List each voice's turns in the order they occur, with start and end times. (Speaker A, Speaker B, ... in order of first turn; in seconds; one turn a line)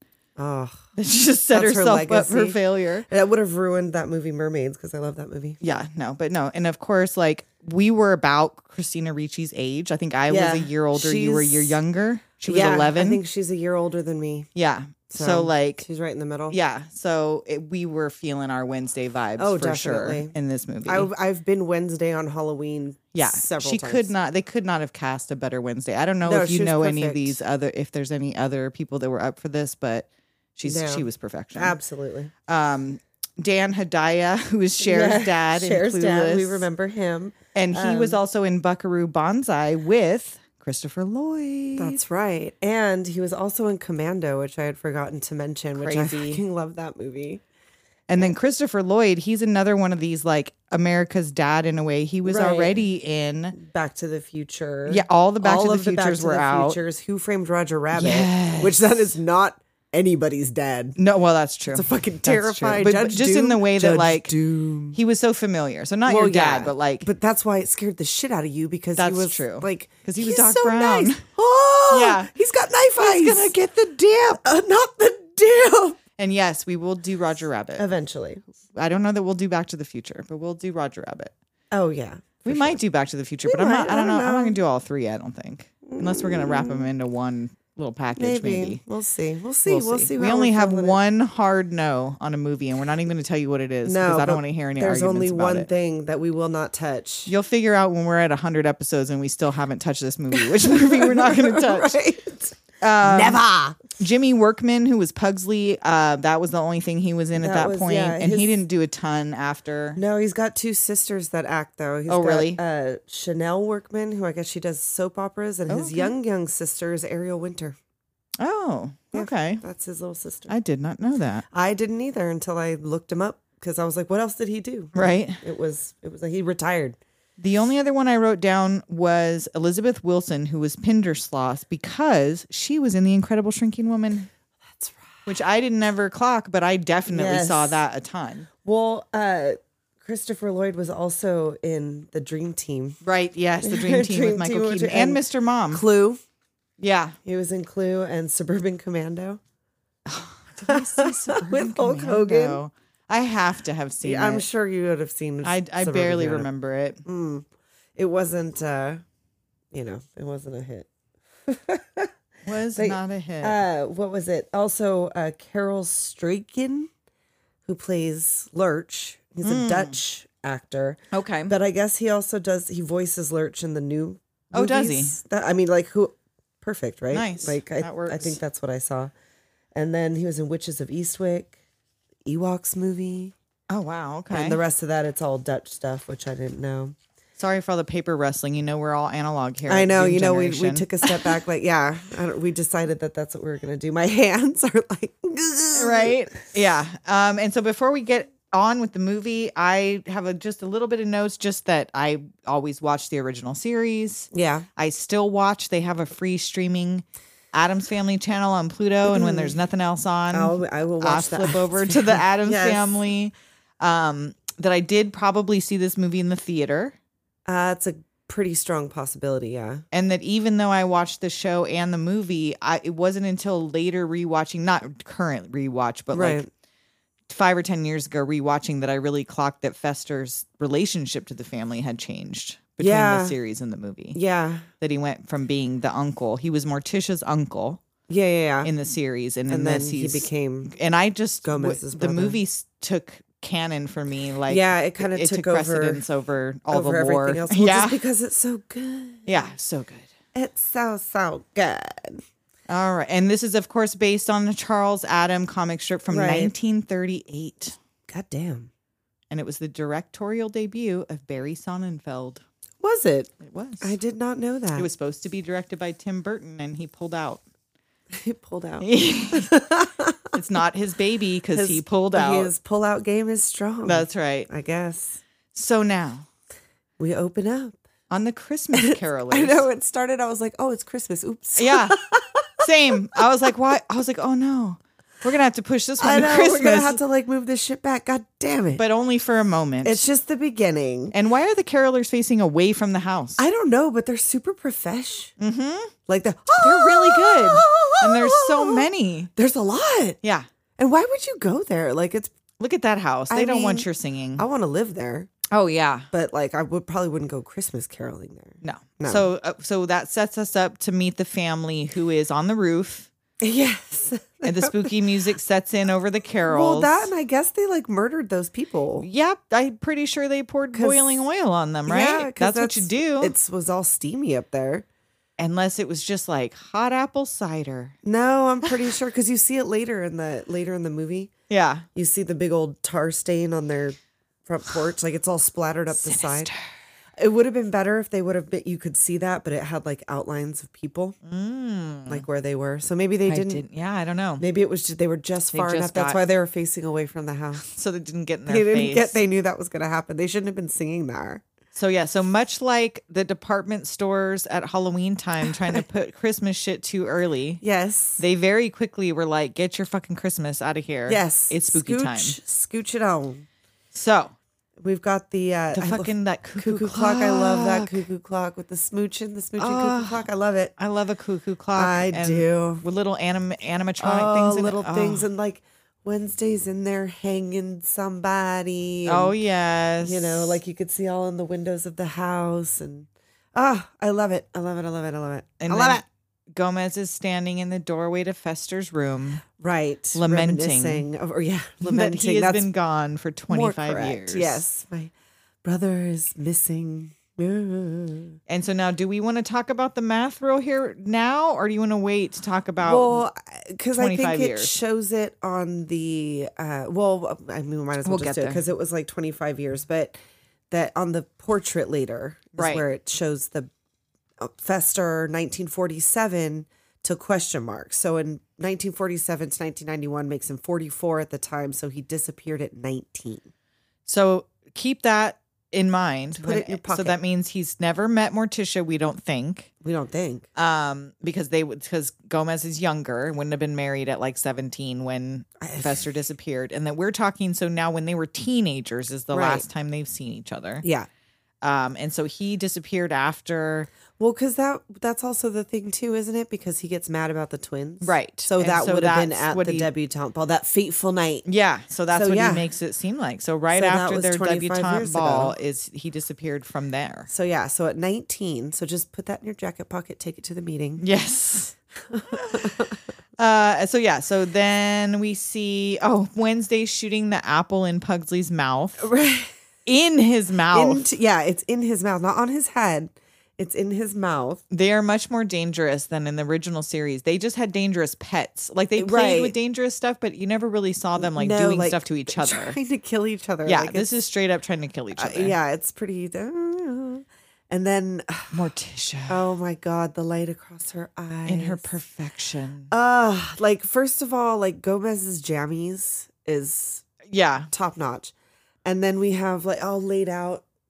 Speaker A: 0.4-0.8
Speaker B: 0.9-3.0
Speaker A: 1.5-5.6
Speaker B: 5.6-13.2
Speaker A: 10.3-11.8
Speaker A: 12.4-14.5
Speaker B: 14.5-15.8
Speaker A: 15.1-16.6
Speaker B: 16.5-21.1
Speaker A: 19.4-24.1
Speaker B: 23.1-31.7
Speaker A: 26.2-27.4
Speaker A: 30.6-32.3
Speaker B: 32.5-36.6
Speaker A: 34.8-38.2
Speaker B: 37.5-42.0
Speaker A: 41.8-47.4
Speaker B: 45.8-46.4
Speaker B: 48.1-53.5
Speaker A: 52.2-52.8
Speaker A: 53.5-61.0
Speaker B: 54.9-56.8
Speaker B: 57.9-58.9
Speaker B: 61.0-64.3
Speaker A: 61.7-65.0
Speaker B: 64.9-67.1
Speaker A: 66.0-73.5
Speaker B: 69.0-71.2
Speaker B: 71.9-72.3
Speaker B: 73.0-74.4
Speaker A: 74.4-76.0
Speaker B: 76.2-77.8
Speaker A: 77.8-78.4
Speaker B: 78.7-81.3
Speaker A: 81.7-82.8
Speaker B: 82.5-88.8
Speaker A: 83.4-84.6
Speaker A: 85.8-86.9
Speaker A: 88.1-91.0
Speaker B: 89.7-95.7
Speaker A: 93.8-97.3
Speaker B: 97.2-101.9
Speaker A: 100.3-103.9
Speaker B: 102.8-103.4
Speaker B: 104.0-110.0
Speaker A: 107.3-108.6
Speaker A: 110.0-117.8
Speaker B: 112.1-112.6
Speaker B: 115.7-116.1
Speaker B: 118.4-119.6
Speaker A: 119.1-120.5
Speaker B: 120.5-121.4
Speaker A: 121.5-127.0
Speaker B: 124.9-125.4
Speaker B: 127.4-134.3
Speaker A: 134.7-135.2
Speaker B: 135.2-138.5
Speaker A: 137.1-137.8
Speaker A: 138.6-143.0
Speaker B: 143.0-145.8
Speaker A: 143.6-146.2
Speaker B: 146.8-147.2
Speaker A: 147.2-149.4
Speaker B: 150.1-154.4
Speaker A: 150.7-152.6
Speaker A: 154.0-156.5
Speaker B: 155.4-157.0
Speaker A: 157.0-159.0
Speaker A: 159.7-160.9
Speaker A: 161.5-162.1
Speaker B: 162.4-163.6
Speaker A: 162.7-166.9
Speaker A: 167.7-179.1
Speaker B: 169.4-169.9
Speaker B: 171.1-171.5
Speaker B: 174.5-175.2
Speaker B: 177.1-178.4
Speaker A: 179.7-181.5
Speaker A: 182.2-183.3
Speaker B: 183.7-184.6
Speaker A: 184.3-186.9
Speaker B: 187.4-191.4
Speaker A: 189.7-196.4
Speaker B: 195.7-216.9
Speaker A: 204.3-204.7
Speaker A: 209.0-209.5
Speaker A: 210.3-213.0
Speaker A: 217.5-219.8
Speaker B: 219.9-226.4
Speaker A: 226.1-226.5
Speaker B: 227.3-234.2
Speaker A: 232.8-233.3
Speaker A: 234.1-234.7
Speaker B: 234.8-237.8
Speaker A: 238.1-238.7
Speaker B: 238.6-248.0
Speaker A: 239.5-240.7
Speaker A: 241.4-242.4
Speaker A: 244.5-246.0
Speaker A: 246.7-249.5
Speaker B: 249.2-250.1
Speaker A: 250.3-252.2
Speaker B: 252.7-257.8
Speaker A: 256.1-256.5
Speaker A: 258.1-258.7
Speaker B: 259.3-262.4
Speaker A: 262.8-264.9
Speaker B: 263.4-263.9
Speaker B: 264.8-267.4
Speaker A: 268.1-270.3
Speaker B: 268.8-269.5
Speaker B: 270.3-272.5
Speaker A: 271.5-275.2
Speaker B: 273.8-274.5
Speaker B: 275.5-276.2
Speaker A: 277.0-277.8
Speaker B: 278.1-279.6
Speaker A: 278.7-282.6
Speaker B: 281.6-282.0
Speaker B: 282.6-287.0
Speaker A: 286.0-288.8
Speaker B: 288.8-290.0
Speaker A: 289.8-291.1
Speaker B: 291.1-293.4
Speaker A: 293.4-295.3
Speaker B: 295.4-295.9
Speaker A: 296.1-300.2
Speaker B: 296.6-299.3
Speaker A: 300.8-302.3
Speaker B: 302.6-304.4
Speaker A: 303.3-305.3
Speaker B: 305.5-306.1
Speaker A: 306.1-309.3
Speaker B: 308.6-313.1
Speaker A: 313.4-314.9
Speaker B: 314.4-317.1
Speaker A: 316.5-319.1
Speaker B: 319.0-323.3
Speaker A: 320.7-321.2
Speaker A: 321.8-324.9
Speaker B: 325.4-327.9
Speaker A: 328.0-331.3
Speaker B: 331.5-331.9
Speaker A: 331.9-336.5
Speaker B: 335.9-336.7
Speaker A: 337.2-341.1
Speaker B: 341.2-342.2
Speaker A: 342.1-343.6
Speaker B: 343.2-344.4
Speaker A: 344.4-347.6
Speaker B: 345.5-346.2
Speaker B: 347.7-349.2
Speaker A: 348.5-351.4
Speaker B: 351.7-357.6
Speaker A: 355.5-355.8
Speaker A: 357.6-358.2
Speaker B: 358.2-362.4
Speaker A: 361.1-363.4
Speaker B: 363.9-364.3
Speaker A: 364.8-370.7
Speaker B: 365.7-368.1
Speaker B: 369.6-370.2
Speaker B: 370.8-375.2
Speaker A: 371.7-372.8
Speaker A: 374.0-379.3
Speaker B: 379.1-380.6
Speaker A: 380.0-386.0
Speaker B: 385.6-389.4
Speaker A: 389.6-392.7
Speaker B: 390.1-391.0
Speaker B: 391.8-394.6
Speaker A: 393.5-395.1
Speaker A: 395.6-398.4
Speaker B: 398.5-403.2
Speaker A: 402.8-410.1
Speaker B: 403.9-404.7
Speaker B: 408.0-408.6
Speaker A: 410.7-413.7
Speaker B: 412.6-412.8
Speaker A: 414.4-423.5
Speaker B: 424.1-429.7
Speaker A: 426.4-427.1
Speaker A: 429.8-430.5
Speaker B: 430.6-440.8
Speaker A: 435.6-436.0
Speaker A: 439.3-439.6
Speaker A: 440.8-441.1
Speaker B: 441.6-443.9
Speaker A: 444.2-451.4
Speaker B: 448.0-449.9
Speaker B: 451.4-457.3
Speaker A: 452.1-452.7
Speaker A: 453.7-455.5
Speaker A: 457.3-461.0
Speaker B: 461.0-461.7
Speaker A: 462.1-463.0
Speaker B: 463.4-469.0
Speaker A: 469.0-469.5
Speaker B: 469.9-471.1
Speaker A: 470.7-474.6
Speaker B: 474.7-482.8
Speaker A: 479.0-479.5
Speaker A: 481.2-484.1
Speaker B: 483.6-485.5
Speaker A: 485.1-488.6
Speaker B: 488.5-489.4
Speaker A: 489.3-491.9
Speaker B: 491.4-492.9
Speaker A: 492.9-497.0
Speaker B: 497.3-497.7
Speaker A: 497.7-498.3
Speaker A: 498.8-500.6